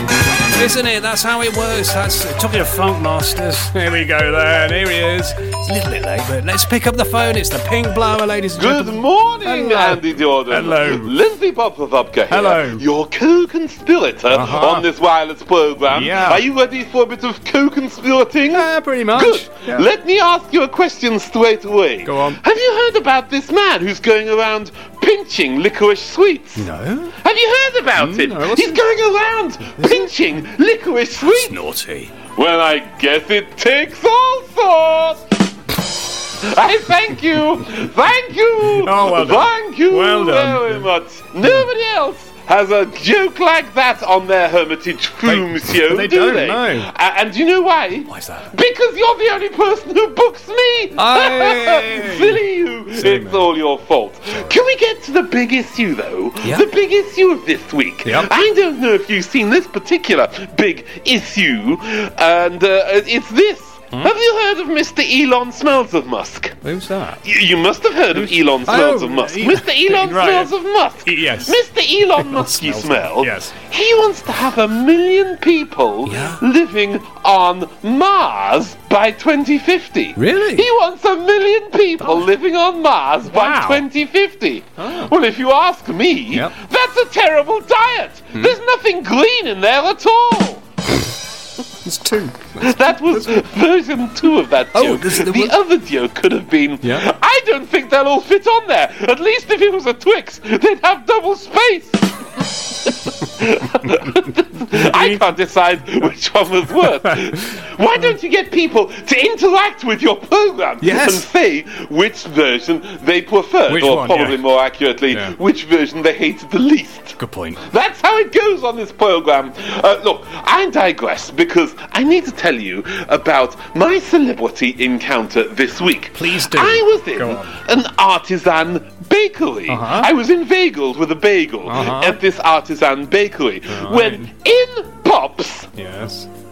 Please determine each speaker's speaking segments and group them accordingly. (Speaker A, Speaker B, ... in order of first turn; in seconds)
Speaker A: 0.5-11.1, 12.3-12.8, 14.3-14.9, 15.9-16.4, 18.5-19.9, 22.0-22.4, 26.6-27.1, 27.9-28.8, 31.2-32.1, 38.8-40.9, 45.2-46.9, 48.1-48.5, 51.0-52.4, 52.9-53.5, 54.3-54.6, 58.0-58.3, 66.6-67.2, 68.1-70.5, 71.0-71.6, 72.2-73.5, 76.0-76.4, 80.2-80.7, 82.0-82.2, 83.2-83.8, 84.8-85.1, 91.8-93.4, 94.7-95.5, 104.7-105.3, 106.8-107.4, 110.8-111.2, 113.7-114.4, 115.1-115.3, 117.2-117.6, 126.1-127.5, 129.7-130.1, 131.7-132.2, 133.7-134.3, 135.8-136.3
Speaker B: 8.6-31.6, 32.3-35.2, 36.4-66.6, 67.2-90.6, 92.6-135.7